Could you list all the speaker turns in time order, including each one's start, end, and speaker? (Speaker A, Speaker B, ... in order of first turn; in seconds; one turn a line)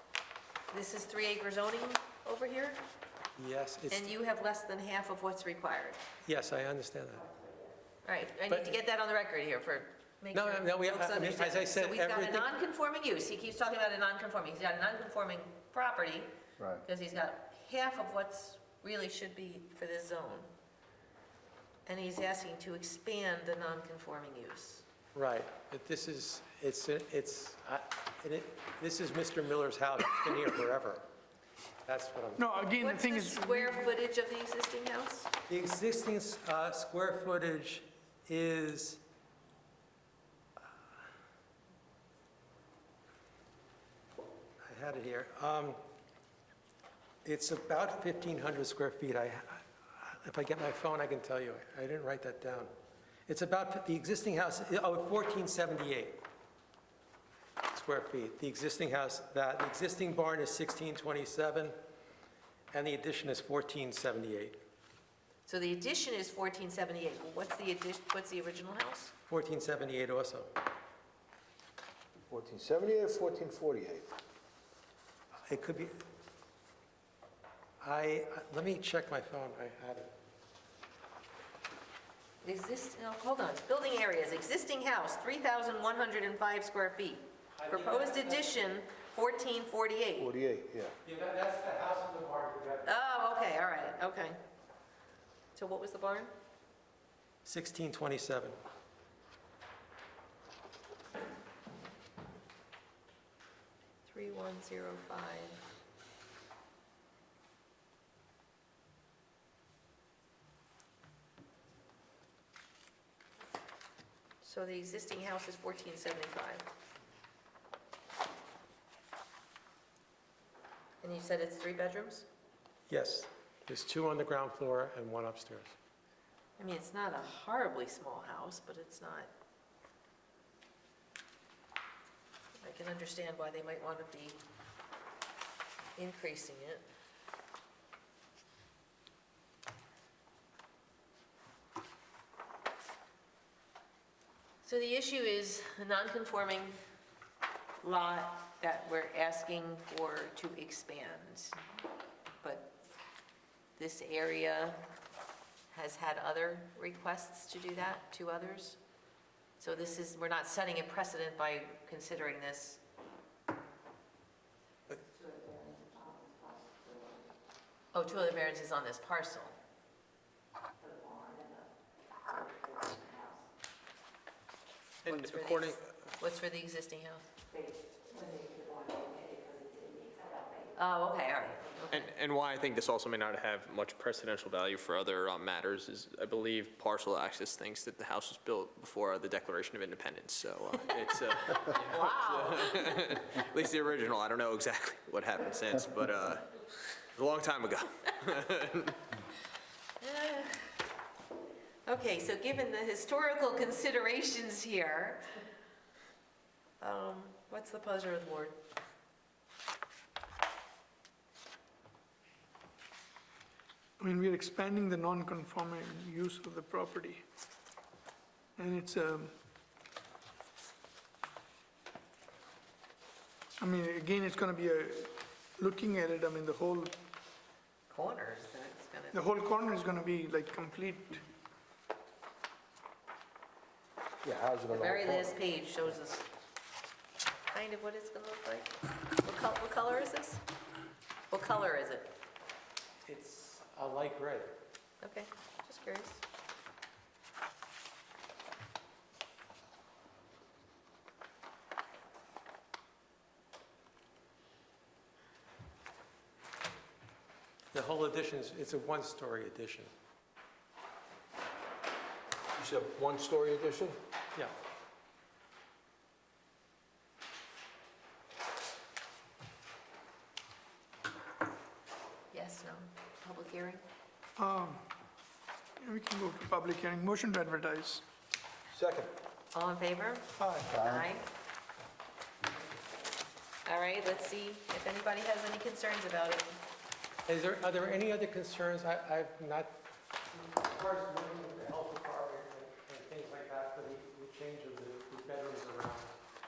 Speaker A: 0.7-2.8
Speaker B: 3.4-4.1
Speaker A: 3.9-6.0
Speaker B: 6.2-7.3
Speaker A: 8.0-16.3
Speaker B: 8.5-8.7
Speaker B: 10.3-12.5
Speaker C: 16.6-16.8
Speaker A: 16.8-20.5
Speaker A: 21.9-24.8
Speaker B: 25.1-31.0
Speaker B: 31.9-32.5
Speaker D: 32.4-33.9
Speaker A: 32.8-35.3
Speaker B: 35.5-39.0
Speaker B: 44.6-45.8
Speaker B: 47.2-52.7
Speaker B: 53.3-56.2
Speaker B: 57.7-61.8
Speaker B: 62.7-64.6
Speaker A: 65.5-69.1
Speaker B: 69.3-70.5
Speaker C: 72.3-74.1
Speaker B: 75.5-76.0
Speaker B: 77.8-80.1
Speaker A: 82.4-90.3
Speaker B: 87.5-88.6
Speaker C: 90.2-91.0
Speaker B: 91.0-92.9
Speaker A: 92.9-94.4
Speaker A: 95.5-96.3
Speaker B: 97.4-98.6
Speaker A: 104.0-105.6
Speaker A: 114.4-116.7
Speaker A: 121.0-122.3
Speaker B: 122.9-125.8
Speaker A: 126.6-129.3
Speaker A: 132.6-134.4
Speaker A: 136.0-136.8
Speaker A: 144.6-146.8
Speaker A: 147.8-151.6
Speaker A: 152.4-152.8
Speaker A: 153.8-154.8
Speaker A: 155.7-158.8
Speaker A: 159.6-162.8
Speaker A: 167.9-169.6
Speaker E: 175.1-175.8
Speaker A: 175.1-177.2
Speaker A: 180.8-182.1
Speaker E: 181.9-196.4
Speaker A: 191.6-192.9
Speaker E: 197.1-199.0
Speaker A: 200.0-200.7
Speaker A: 201.9-205.2
Speaker A: 206.8-208.6
Speaker D: 214.0-217.2
Speaker D: 218.6-219.3
Speaker D: 223.6-226.9
Speaker A: 227.9-229.2
Speaker D: 229.1-231.2
Speaker C: 234.2-235.4
Speaker A: 234.7-236.3
Speaker A: 237.5-240.4
Speaker A: 241.3-242.1
Speaker B: 243.1-244.5
Speaker A: 245.0-246.2
Speaker B: 257.7-259.9
Speaker C: 262.5-264.0
Speaker A: 272.3-273.8
Speaker D: 274.4-274.8
Speaker D: 275.8-278.0
Speaker C: 278.7-279.1
Speaker A: 279.5-281.3
Speaker D: 280.4-280.7
Speaker C: 280.7-281.1
Speaker A: 283.6-286.5
Speaker B: 287.3-289.7
Speaker B: 290.3-296.1